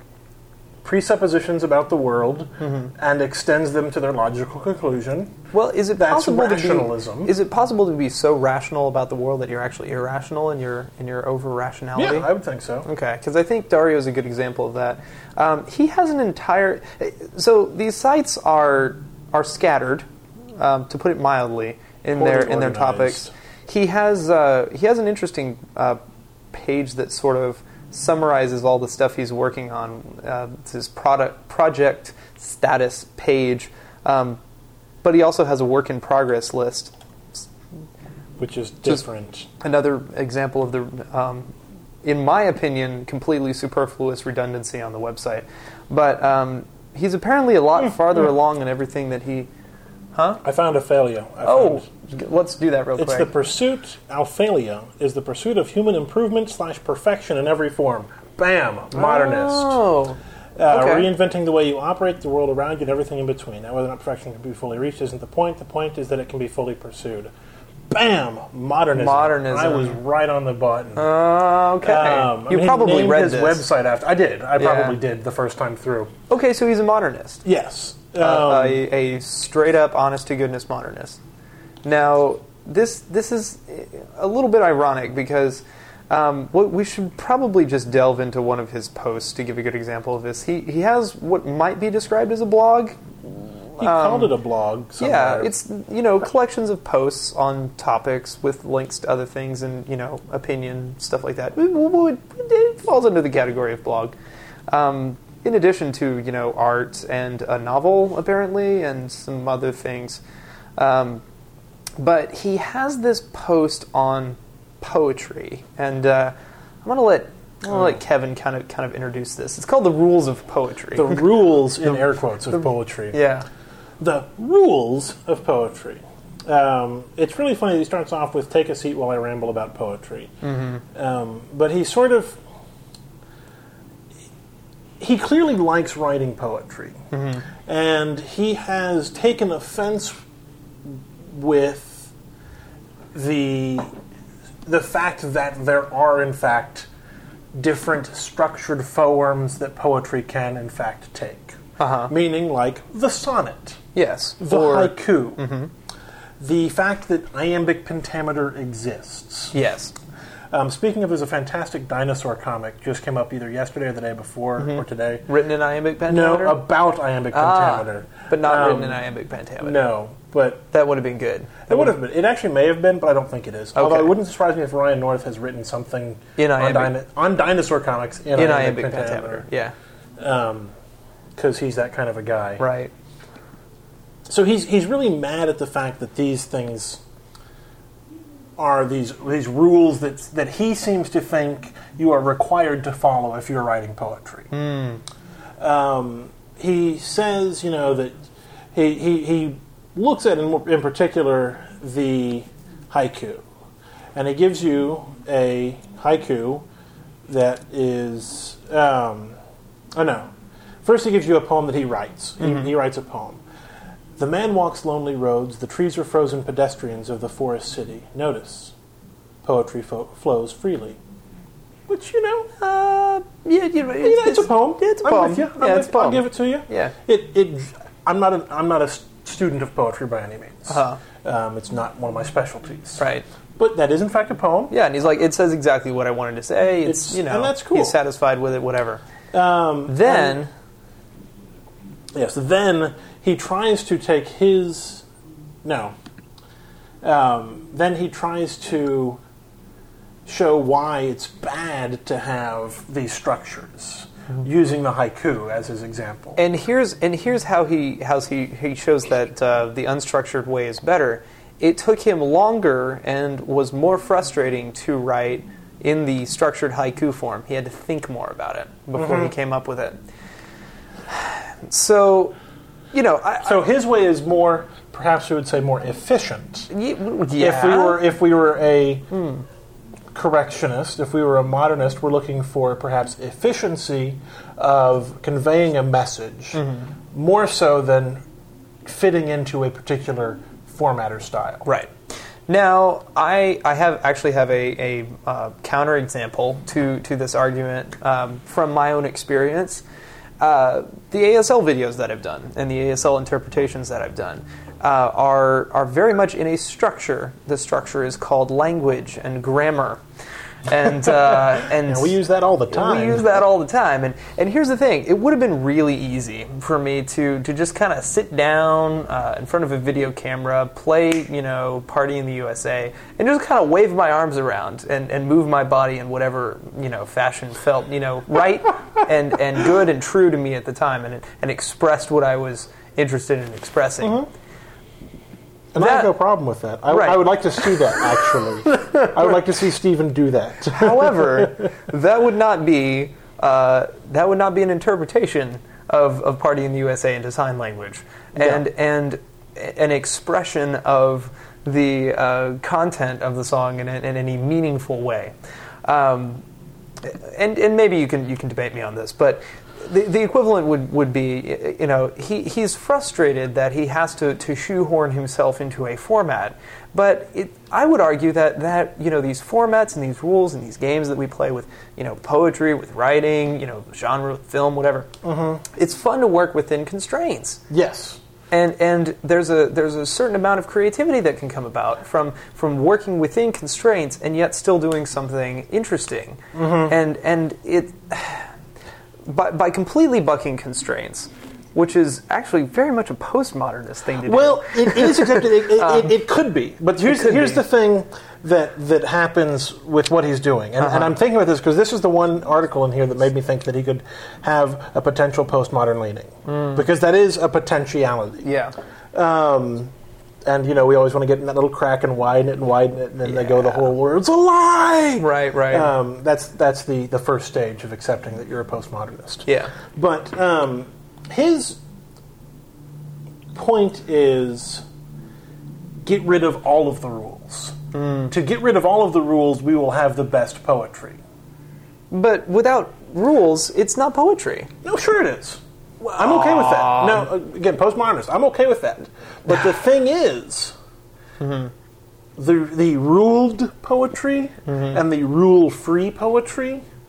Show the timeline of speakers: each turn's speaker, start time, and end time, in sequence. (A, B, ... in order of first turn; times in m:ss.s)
0:00.8-0:05.3 A
0:02.6-0:02.9 B
0:05.5-0:12.3 B
0:06.0-0:07.3 A
0:11.9-0:12.9 A
0:12.8-0:20.1 B
0:20.6-0:26.0 B
0:22.1-0:23.3 A
0:26.5-0:34.4 B
0:35.0-0:37.4 B
0:38.4-0:39.5 A
0:39.6-0:41.5 B
0:42.0-0:49.5 B
0:50.1-0:50.4 B
0:50.4-0:51.9 A
0:51.4-0:53.3 B
0:53.0-0:59.8 A
0:58.9-1:01.1 B
1:00.6-1:07.3 A
1:07.9-1:11.1 A
1:08.9-1:10.0 B
1:11.0-1:13.6 B
1:11.8-1:16.1 A
1:14.6-1:15.0 B
1:16.3-1:17.4 B
1:17.4-1:18.8 A
1:18.2-1:21.2 B
1:21.8-1:34.3 B
1:33.8-1:35.5 A
1:35.0-1:44.2 B
1:44.7-1:50.2 B
1:50.8-1:51.2 B
1:52.0-2:01.2 B
2:00.9-2:03.2 A
2:02.5-2:03.4 B
2:04.0-2:10.3 A
2:10.4-2:10.8 B
2:10.9-2:12.4 A
2:15.0-2:17.0 A
2:17.1-2:17.4 B
2:17.6-2:20.2 A
2:20.8-2:22.1 A
2:23.1-2:23.9 A
2:24.6-2:26.9 A
2:27.5-2:33.8 A
2:31.8-2:32.1 B
2:33.9-2:35.7 B
2:34.4-2:35.4 A
2:36.4-2:39.5 A
2:39.5-2:39.9 B
2:40.5-2:45.3 A
2:44.6-2:46.6 B
2:46.0-2:49.0 A
2:47.3-2:49.8 B
2:49.6-2:50.7 A
2:50.7-2:52.0 B
2:51.7-2:59.5 A
2:53.7-2:54.1 B
2:56.4-2:57.0 B
2:58.3-2:59.7 B
3:00.2-3:00.7 A
3:01.4-3:02.6 A
3:02.6-3:02.9 B
3:04.3-3:07.0 A
3:08.6-3:14.5 A
3:14.5-3:15.0 B
3:15.6-3:18.2 A
3:18.7-3:23.4 A
3:24.1-3:26.6 A
3:27.3-3:29.4 A
3:30.0-3:30.3 A
3:30.8-3:33.4 A
3:32.4-3:32.7 B
3:34.2-3:38.7 A
3:39.4-3:41.0 A
3:41.9-3:42.5 A
3:42.6-3:46.9 B
3:44.0-3:54.7 A
3:50.7-3:51.0 B
3:53.0-3:53.2 B
3:54.7-3:59.0 B
3:56.8-3:58.0 A
3:59.3-4:00.4 A
3:59.9-4:00.5 B
4:02.1-4:05.0 A
4:05.6-4:06.0 A
4:07.0-4:09.2 A
4:10.2-4:16.4 A
4:16.4-4:30.0 B
4:29.0-4:29.3 A
4:31.1-4:32.3 B
4:32.9-4:33.6 B
4:33.4-4:36.7 A
4:36.7-4:38.0 B
4:37.4-4:39.1 A
4:39.1-4:39.4 B
4:40.1-4:48.2 A
4:46.5-4:46.9 B
4:48.8-4:51.7 A
4:51.6-4:51.9 B
4:52.5-4:59.8 B
5:00.4-5:10.0 B
5:10.7-5:12.2 B
5:11.1-5:13.4 A
5:12.7-5:34.2 B
5:34.0-5:34.3 A
5:35.7-5:41.6 A
5:35.8-5:36.1 B
5:36.9-5:38.0 B
5:38.9-5:39.1 B
5:40.7-5:55.3 B
5:48.4-5:48.6 A
5:55.8-5:56.4 B
5:57.0-6:15.1 B
6:15.2-6:15.6 A
6:15.7-6:17.6 B
6:17.7-6:18.2 A
6:18.5-6:28.5 B
6:26.5-6:26.9 A
6:29.2-6:36.2 B
6:34.2-6:48.5 A
6:37.0-6:37.6 B
6:40.8-6:41.1 B
6:46.5-6:46.8 B
6:48.4-6:48.7 B
6:49.1-6:49.9 A
6:50.4-7:01.8 A
6:53.2-6:53.9 B
6:55.2-6:55.9 B
6:59.5-6:59.7 B
7:03.5-7:04.8 A
7:06.0-7:07.8 A
7:07.9-7:08.3 B
7:08.3-7:11.2 A
7:12.1-7:14.7 B
7:14.8-7:20.7 A
7:16.1-7:17.3 B
7:21.4-7:21.7 B
7:22.4-7:26.8 A
7:24.7-7:25.0 B